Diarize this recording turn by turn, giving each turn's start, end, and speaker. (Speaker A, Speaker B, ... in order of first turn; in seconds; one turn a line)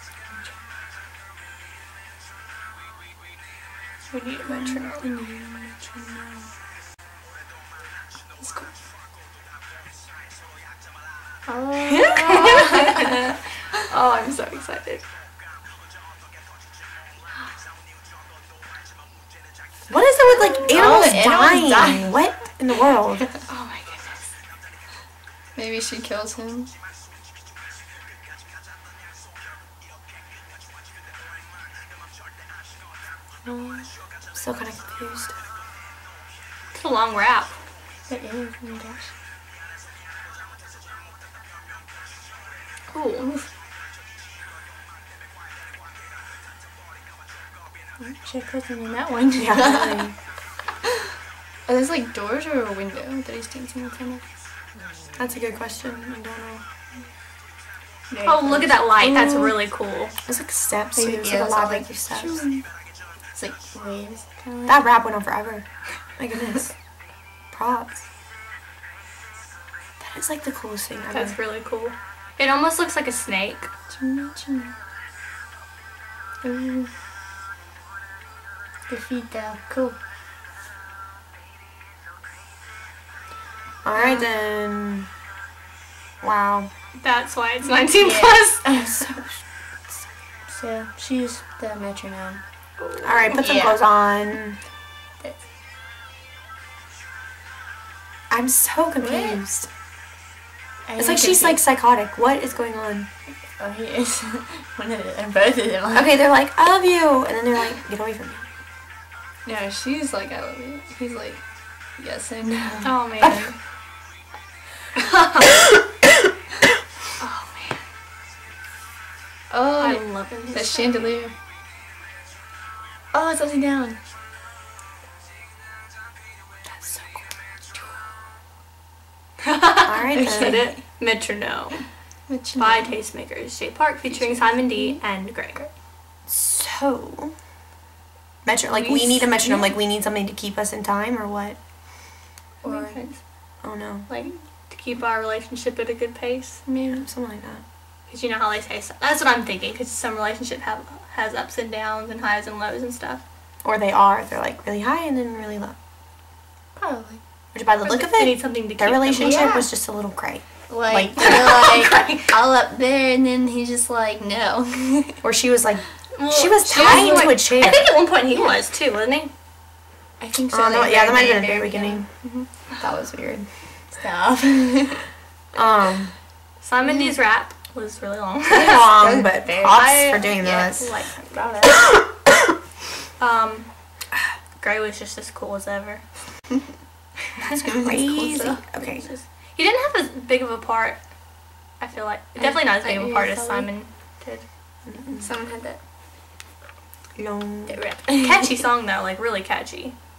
Speaker A: 4.1-5.1
Speaker B: 4.5-6.5
Speaker B: 8.4-8.7
Speaker B: 11.5-13.2
Speaker A: 11.8-15.0
Speaker C: 19.9-23.3
Speaker B: 20.3-22.1
Speaker A: 23.5-24.3
Speaker B: 25.6-26.7
Speaker B: 33.5-33.9
Speaker C: 34.3-35.3
Speaker A: 36.7-37.6
Speaker B: 38.1-39.1
Speaker A: 42.9-43.3
Speaker B: 48.0-50.0
Speaker C: 49.3-50.1
Speaker B: 51.7-54.2
Speaker C: 55.2-56.6
Speaker B: 58.1-59.6
Speaker A: 58.2-60.1
Speaker C: 60.3-62.4
Speaker B: 61.0-62.6
Speaker B: 63.3-64.8
Speaker C: 64.7-65.7
Speaker C: 66.2-66.8
Speaker C: 67.5-68.0
Speaker C: 70.0-71.4
Speaker A: 71.1-73.7
Speaker B: 73.9-74.8
Speaker B: 76.4-76.9
Speaker B: 78.9-80.0
Speaker C: 83.8-85.1
Speaker C: 86.2-86.7
Speaker A: 86.9-89.1
Speaker B: 87.9-89.2
Speaker B: 90.5-92.4
Speaker A: 92.8-93.4
Speaker C: 93.0-94.6
Speaker B: 93.3-93.8
Speaker C: 98.3-99.7
Speaker B: 99.0-99.4
Speaker B: 100.9-101.6
Speaker C: 101.0-103.1
Speaker B: 103.6-106.1
Speaker C: 105.9-108.5
Speaker B: 109.5-111.4
Speaker B: 112.0-113.0
Speaker A: 112.8-113.5
Speaker C: 113.2-113.5
Speaker A: 115.0-115.5
Speaker A: 117.2-117.8
Speaker B: 119.5-121.3
Speaker A: 119.8-121.2
Speaker B: 123.1-124.0
Speaker A: 126.7-127.3
Speaker A: 129.4-131.8
Speaker C: 129.8-130.6
Speaker B: 130.2-130.7
Speaker B: 132.3-133.0
Speaker A: 132.6-135.6
Speaker B: 134.1-135.0
Speaker C: 136.3-137.3
Speaker C: 138.4-141.6
Speaker A: 138.7-139.4
Speaker B: 139.4-139.7
Speaker A: 142.6-143.2
Speaker B: 142.6-143.0
Speaker C: 143.6-144.1
Speaker A: 144.1-146.7
Speaker B: 146.7-147.1
Speaker C: 146.9-147.6
Speaker A: 148.1-153.2
Speaker C: 153.6-155.8
Speaker B: 156.8-157.2
Speaker C: 157.5-161.7
Speaker A: 157.8-159.5
Speaker B: 159.2-159.7
Speaker B: 160.7-165.2
Speaker A: 161.2-162.3
Speaker C: 165.2-167.9
Speaker A: 166.2-169.3
Speaker B: 166.8-167.2
Speaker B: 168.3-168.6
Speaker B: 170.2-172.5
Speaker C: 170.5-172.1
Speaker C: 172.8-173.5
Speaker B: 173.9-175.1
Speaker C: 175.5-176.1
Speaker A: 176.6-178.9
Speaker B: 176.8-177.2
Speaker C: 178.5-180.9
Speaker B: 178.7-179.8
Speaker A: 179.7-181.4
Speaker B: 180.4-180.7
Speaker B: 181.3-182.0
Speaker A: 183.2-183.7
Speaker A: 184.6-186.0
Speaker B: 187.5-188.6
Speaker C: 187.7-189.1
Speaker A: 188.2-191.0
Speaker A: 191.8-194.4
Speaker B: 192.4-193.7
Speaker C: 194.9-195.2
Speaker B: 195.1-195.8
Speaker C: 197.2-197.8
Speaker B: 197.7-198.6
Speaker A: 198.2-199.9